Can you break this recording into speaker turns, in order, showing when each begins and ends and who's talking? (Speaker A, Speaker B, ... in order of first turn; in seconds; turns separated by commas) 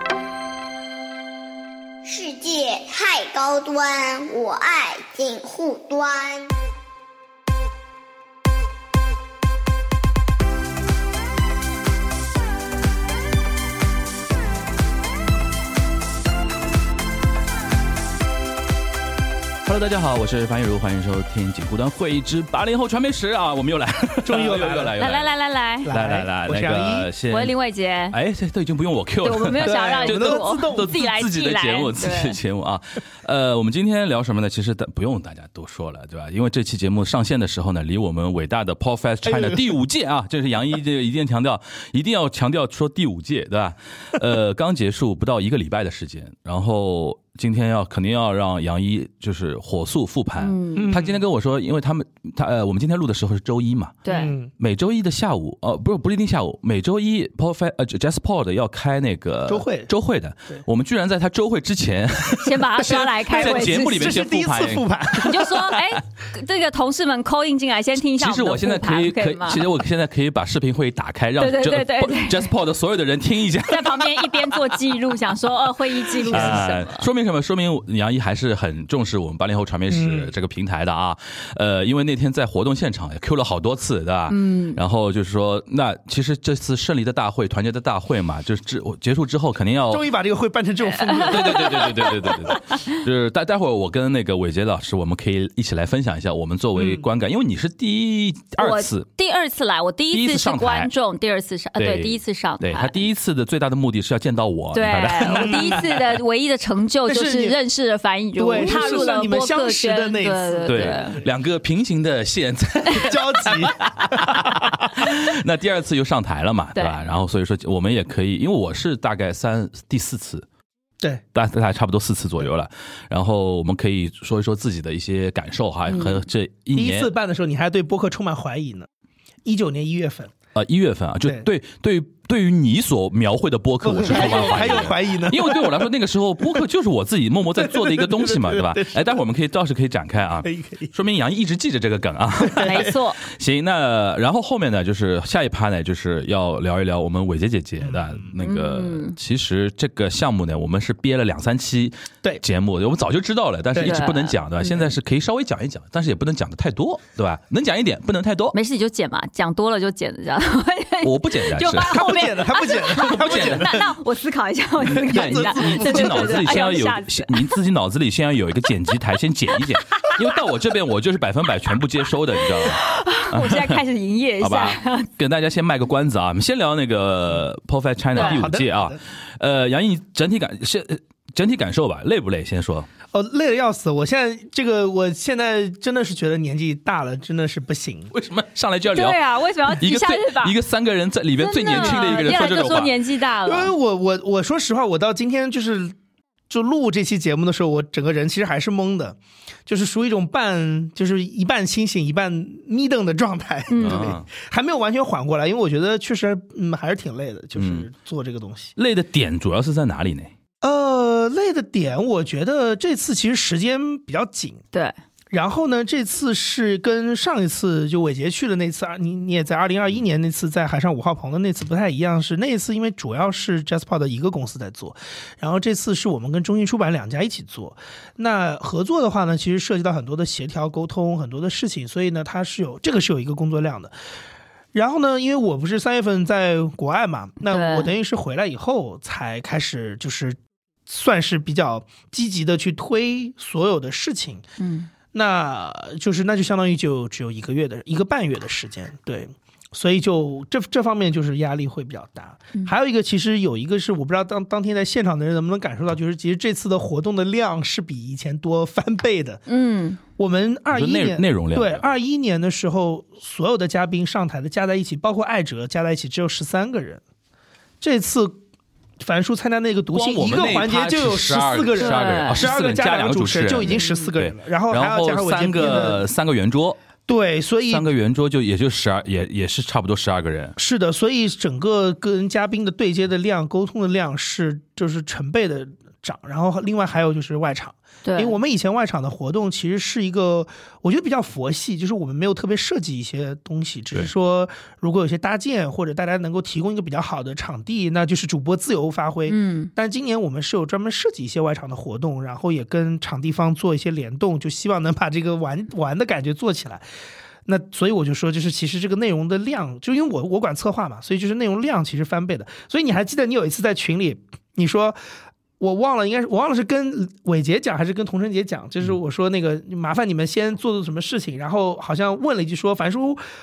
Speaker A: 2.0-6.5, Speaker B: 19.6-25.3, Speaker C: 24.2-25.0, Speaker D: 25.0-25.9, Speaker C: 25.9-27.1, Speaker B: 25.9-27.5, Speaker D: 27.3-28.2, Speaker B: 28.1-54.0, Speaker D: 29.2-32.4, Speaker C: 29.6-31.0, Speaker C: 39.2-39.6, Speaker D: 50.4-51.0, Speaker C: 50.8-51.2, Speaker D: 54.0-54.3, Speaker C: 54.1-54.5, Speaker B: 54.6-65.3, Speaker C: 59.5-59.9, Speaker D: 62.4-64.2, Speaker C: 62.8-65.8, Speaker D: 65.2-69.6, Speaker B: 68.2-74.8, Speaker D: 71.4-72.5, Speaker D: 73.7-77.1, Speaker B: 76.2-90.1, Speaker C: 76.2-76.7, Speaker C: 79.9-80.3, Speaker D: 84.3-84.8, Speaker C: 89.9-92.0, Speaker D: 91.1-92.1, Speaker B: 91.1-99.1, Speaker C: 96.8-97.1, Speaker D: 98.6-103.0, Speaker B: 100.1-100.9, Speaker B: 101.8-106.2, Speaker D: 104.7-111.2, Speaker C: 105.2-105.8, Speaker C: 107.0-107.6, Speaker C: 108.3-111.2, Speaker B: 108.6-109.1, Speaker B: 110.7-120.5, Speaker C: 112.9-114.9, Speaker D: 116.7-117.0, Speaker B: 121.3-127.1, Speaker D: 125.9-126.2, Speaker C: 126.7-128.9, Speaker C: 129.4-130.3, Speaker B: 130.5-158.5, Speaker C: 133.8-135.9, Speaker D: 134.0-134.9, Speaker C: 137.6-139.2, Speaker C: 140.4-140.9, Speaker C: 142.4-142.9, Speaker D: 142.6-143.2, Speaker C: 147.8-148.3, Speaker D: 148.4-149.1, Speaker C: 153.7-154.0, Speaker D: 153.8-154.3, Speaker D: 158.5-167.5, Speaker B: 161.0-162.1, Speaker C: 161.8-163.9, Speaker B: 163.0-163.8, Speaker C: 164.8-166.6, Speaker B: 164.9-173.8, Speaker D: 169.8-170.1, Speaker D: 172.5-175.1, Speaker B: 174.4-182.9, Speaker D: 178.1-178.4, Speaker C: 178.1-179.0, Speaker C: 183.1-188.1, Speaker B: 188.1-193.0, Speaker D: 188.9-190.5, Speaker D: 191.4-193.7, Speaker C: 191.7-192.2, Speaker C: 193.4-195.9, Speaker C: 196.5-208.7, Speaker D: 203.7-204.1, Speaker B: 203.8-204.2, Speaker B: 207.6-207.9, Speaker B: 208.8-210.3, Speaker C: 210.6-214.6, Speaker C: 215.3-233.9, Speaker C: 234.7-244.4, Speaker D: 237.5-237.9, Speaker D: 244.6-244.9, Speaker C: 245.1-259.4, Speaker D: 259.5-260.0, Speaker C: 260.2-267.0, Speaker B: 260.7-261.8, Speaker C: 267.8-268.4, Speaker C: 269.0-276.1, Speaker B: 269.9-276.8, Speaker D: 271.8-272.5, Speaker D: 273.5-274.1, Speaker C: 277.1-277.9, Speaker B: 277.7-280.6, Speaker C: 280.6-306.8, Speaker D: 288.0-288.4, Speaker D: 299.3-299.7, Speaker C: 307.4-315.0, Speaker C: 315.6-323.2